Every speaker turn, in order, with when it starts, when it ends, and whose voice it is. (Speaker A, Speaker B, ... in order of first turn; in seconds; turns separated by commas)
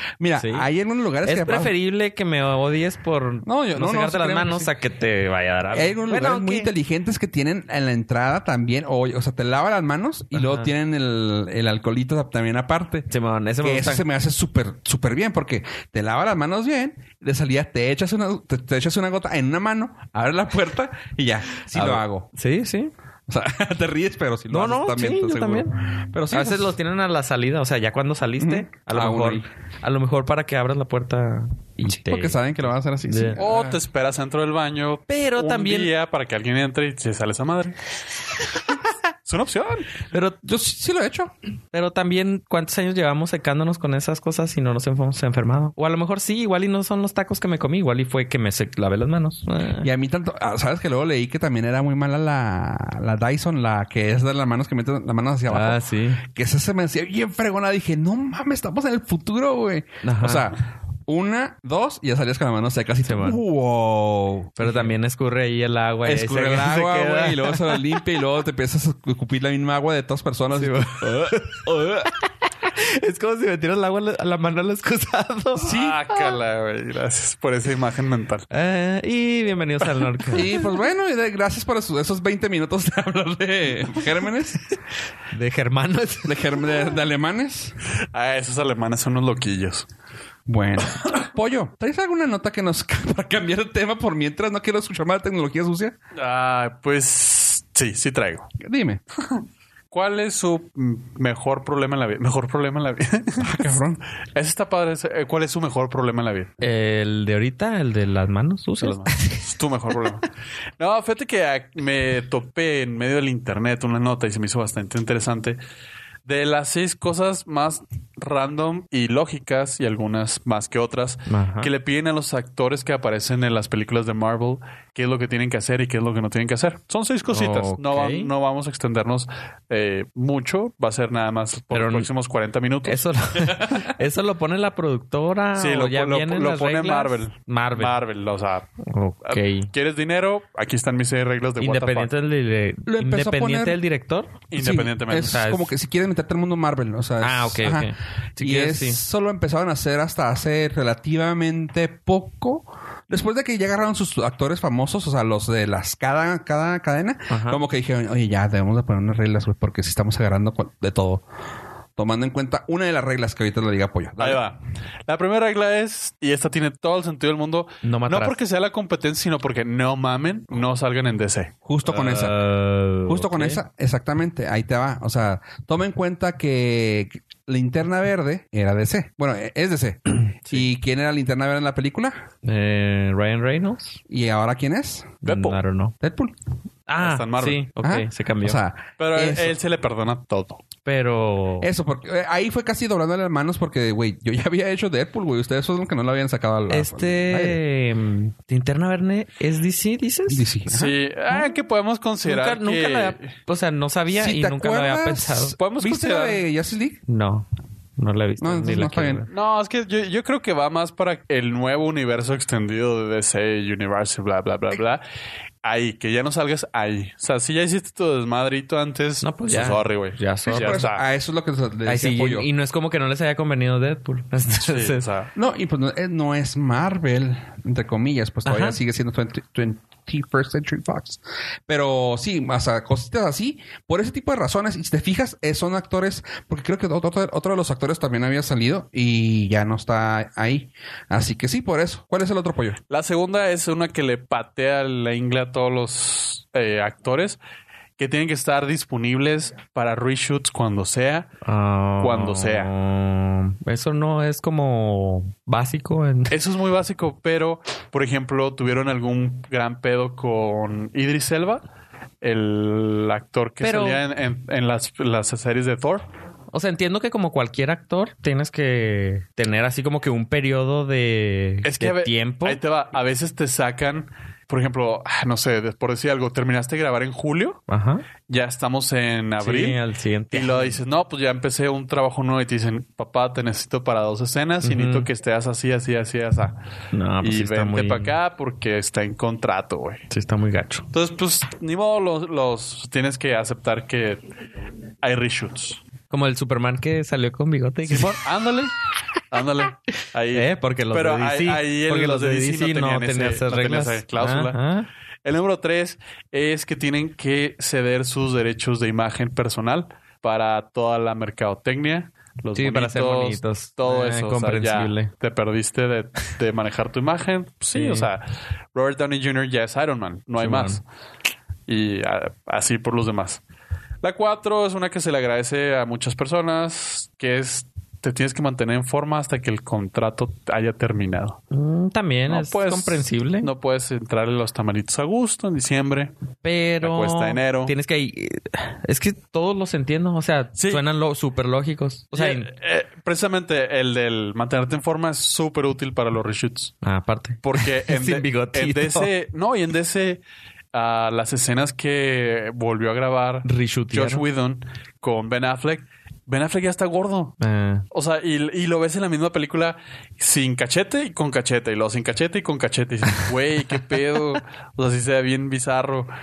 Speaker A: 0.2-1.7, Speaker B: 0.4-0.7, Speaker B: 1.2-6.7, Speaker A: 3.4-4.7, Speaker A: 5.7-13.1, Speaker B: 10.3-10.7, Speaker B: 13.1-14.0, Speaker A: 13.6-22.3, Speaker B: 21.7-22.9, Speaker A: 23.3-26.8, Speaker B: 24.5-25.8, Speaker B: 26.3-32.4, Speaker A: 28.4-29.4, Speaker A: 31.9-33.8, Speaker B: 33.0-33.4, Speaker C: 33.4-37.8, Speaker B: 35.1-35.9, Speaker C: 39.2-39.9, Speaker B: 40.1-40.4, Speaker A: 40.4-41.3, Speaker B: 41.7-49.9, Speaker A: 49.8-64.9, Speaker B: 55.5-56.2, Speaker B: 60.0-60.5, Speaker B: 63.0-63.4, Speaker B: 64.6-67.9, Speaker A: 66.0-71.5, Speaker B: 70.6-75.7, Speaker A: 75.6-76.0, Speaker C: 75.6-78.5, Speaker B: 78.5-80.5, Speaker A: 80.3-84.6, Speaker B: 85.3-86.4, Speaker A: 86.2-87.8, Speaker C: 88.1-89.9, Speaker A: 90.5-95.9, Speaker C: 96.1-98.5, Speaker A: 98.6-99.0, Speaker C: 99.2-103.8, Speaker A: 103.4-104.0, Speaker C: 104.3-106.5, Speaker B: 106.6-109.4, Speaker C: 108.8-110.3, Speaker C: 110.8-115.6, Speaker C: 116.2-133.0, Speaker B: 121.3-121.7, Speaker B: 127.3-128.3, Speaker B: 131.7-132.1, Speaker B: 132.8-138.0, Speaker C: 135.6-138.7, Speaker B: 138.8-139.7, Speaker C: 139.2-142.1, Speaker B: 141.6-144.4, Speaker A: 142.8-143.8, Speaker C: 144.5-145.4, Speaker A: 144.5-161.2, Speaker B: 145.2-145.7, Speaker B: 147.2-149.0, Speaker B: 157.3-157.6, Speaker A: 162.0-164.4, Speaker C: 164.2-171.5, Speaker B: 167.8-168.3, Speaker A: 171.6-172.3, Speaker B: 171.9-173.6, Speaker A: 173.1-182.2, Speaker B: 182.4-184.0, Speaker A: 184.1-185.2, Speaker C: 185.2-185.6, Speaker B: 185.2-185.9, Speaker A: 186.0-186.3, Speaker B: 186.9-188.6, Speaker C: 187.0-187.7, Speaker A: 187.8-189.6, Speaker C: 189.0-190.6, Speaker B: 190.8-191.7, Speaker A: 191.6-197.6, Speaker B: 196.7-200.5, Speaker A: 200.3-201.0, Speaker C: 200.7-203.3, Speaker B: 202.2-205.6, Speaker A: 204.1-207.0, Speaker C: 205.6-206.4, Speaker B: 207.1-207.4, Speaker B: 208.0-209.3, Speaker A: 208.4-209.3, Speaker C: 209.3-215.0, Speaker C: 215.6-221.0, Speaker B: 219.2-220.9, Speaker A: 220.5-222.5, Speaker B: 221.8-225.1, Speaker C: 224.6-225.3, Speaker A: 225.3-242.8, Speaker B: 228.4-228.8, Speaker C: 242.9-247.4, Speaker C: 248.0-251.3, Speaker B: 251.4-256.4, Speaker C: 252.0-252.7, Speaker C: 256.3-261.6, Speaker C: 262.2-266.1, Speaker B: 263.6-264.0, Speaker B: 266.5-272.6, Speaker C: 271.6-277.6, Speaker B: 277.7-278.1, Speaker C: 278.3-279.8, Speaker B: 279.4-280.8, Speaker C: 280.3-286.6, Speaker B: 284.6-285.1, Speaker B: 286.9-288.1, Speaker C: 287.2-290.1, Speaker B: 290.1-290.9, Speaker C: 290.9-294.2, Speaker C: 295.0-295.8, Speaker B: 296.1-298.2, Speaker C: 297.9-298.7, Speaker C: 299.3-304.6, Speaker B: 300.3-304.9, Speaker C: 305.2-320.8, Speaker B: 312.5-315.1, Speaker B: 317.7-318.1, Speaker B: 320.4-320.8, Speaker C: 321.7-323.4, Speaker C: 324.0-331.4, Speaker B: 331.5-333.5, Speaker C: 332.3-336.1, Speaker B: 336.4-342.5, Speaker C: 336.8-337.7, Speaker C: 340.6-340.8, Speaker C: 342.1-346.8, Speaker B: 346.8-349.1, Speaker C: 347.4-350.2, Speaker C: 350.7-357.4, Speaker B: 353.4-354.2, Speaker B: 357.4-357.8, Speaker C: 357.9-366.1